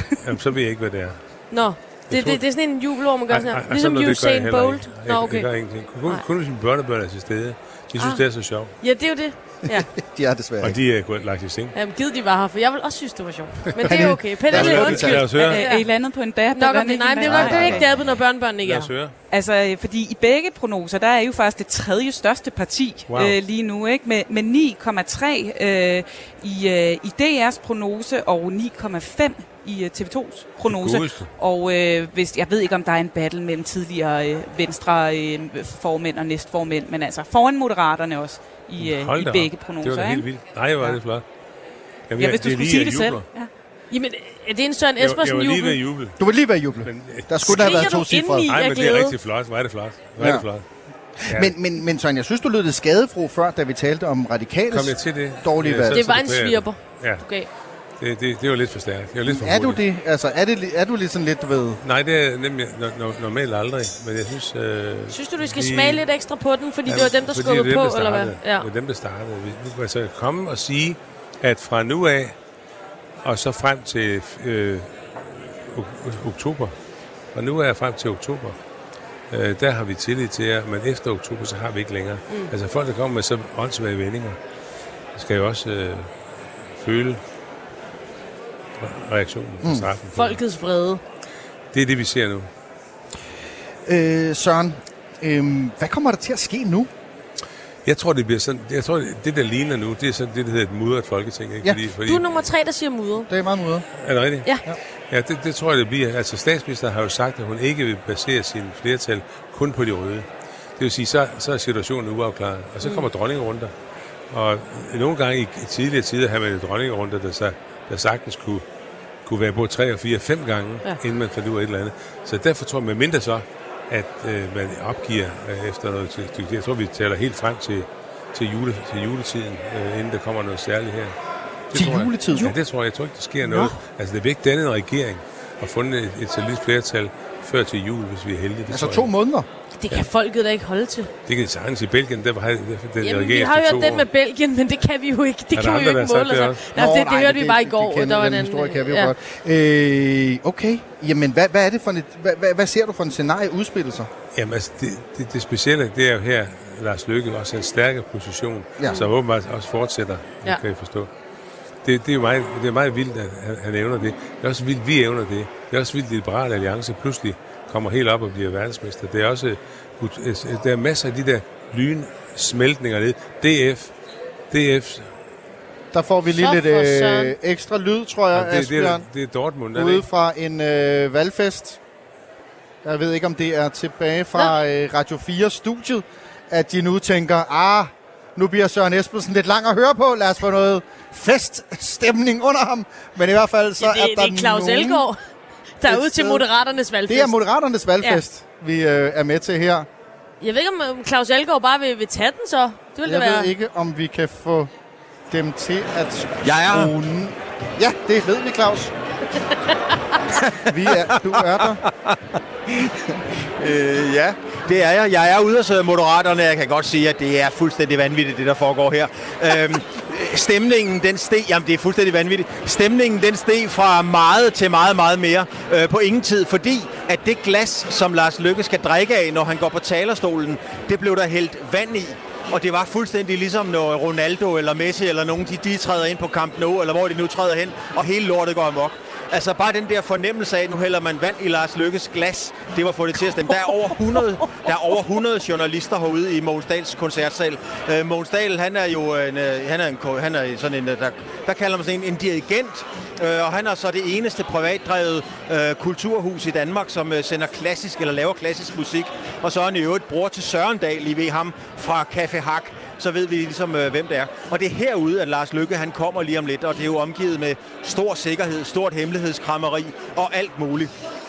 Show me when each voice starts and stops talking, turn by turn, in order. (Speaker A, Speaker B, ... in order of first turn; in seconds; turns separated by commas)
Speaker A: 0.2-8.8, Speaker B: 1.5-6.2, Speaker B: 8.0-9.9, Speaker C: 9.9-10.8, Speaker A: 10.6-11.8, Speaker B: 11.7-19.0, Speaker C: 13.8-15.3, Speaker A: 13.9-15.6, Speaker D: 14.5-18.0, Speaker C: 17.2-17.9, Speaker A: 17.8-19.1, Speaker D: 19.3-40.3, Speaker A: 23.1-23.4, Speaker A: 30.6-31.3, Speaker A: 38.8-41.2, Speaker A: 42.1-43.2, Speaker D: 42.2-43.5, Speaker B: 43.9-45.8, Speaker A: 45.0-50.7, Speaker C: 46.2-48.5, Speaker B: 47.4-49.2, Speaker C: 50.2-50.5, Speaker C: 51.2-56.0, Speaker A: 51.2-51.5, Speaker A: 54.7-57.4, Speaker B: 55.9-57.5, Speaker A: 58.0-59.8, Speaker C: 59.3-61.8, Speaker A: 61.8-66.0, Speaker B: 65.1-68.7, Speaker A: 66.8-72.3, Speaker A: 73.2-76.8, Speaker A: 77.3-78.6, Speaker A: 79.3-84.4, Speaker A: 85.1-87.2, Speaker A: 88.8-90.4, Speaker C: 89.6-89.9, Speaker B: 90.1-91.0, Speaker A: 91.7-92.5, Speaker C: 93.8-96.9, Speaker A: 97.8-102.3, Speaker B: 102.0-103.3, Speaker C: 103.2-103.9, Speaker A: 104.0-104.6, Speaker A: 105.1-113.7, Speaker B: 112.8-113.1, Speaker A: 114.3-118.7, Speaker A: 119.2-131.2, Speaker A: 131.7-139.1, Speaker C: 131.7-132.6, Speaker C: 138.7-139.5, Speaker B: 139.7-141.1, Speaker A: 141.2-144.1, Speaker B: 143.0-149.1, Speaker A: 145.5-146.6, Speaker C: 146.7-154.1, Speaker A: 154.3-161.1, Speaker C: 158.8-159.1, Speaker A: 161.8-173.9, Speaker A: 174.5-175.1, Speaker C: 175.9-179.1, Speaker B: 176.3-177.3, Speaker A: 178.3-180.1, Speaker C: 179.7-181.8, Speaker C: 182.8-195.1, Speaker B: 193.8-195.2, Speaker B: 195.8-197.4, Speaker C: 195.8-196.5, Speaker C: 197.1-199.9, Speaker B: 200.4-203.5, Speaker C: 203.0-204.7, Speaker C: 205.3-208.9, Speaker E: 206.4-206.9, Speaker E: 210.4-211.6, Speaker C: 210.6-211.8, Speaker E: 213.6-270.9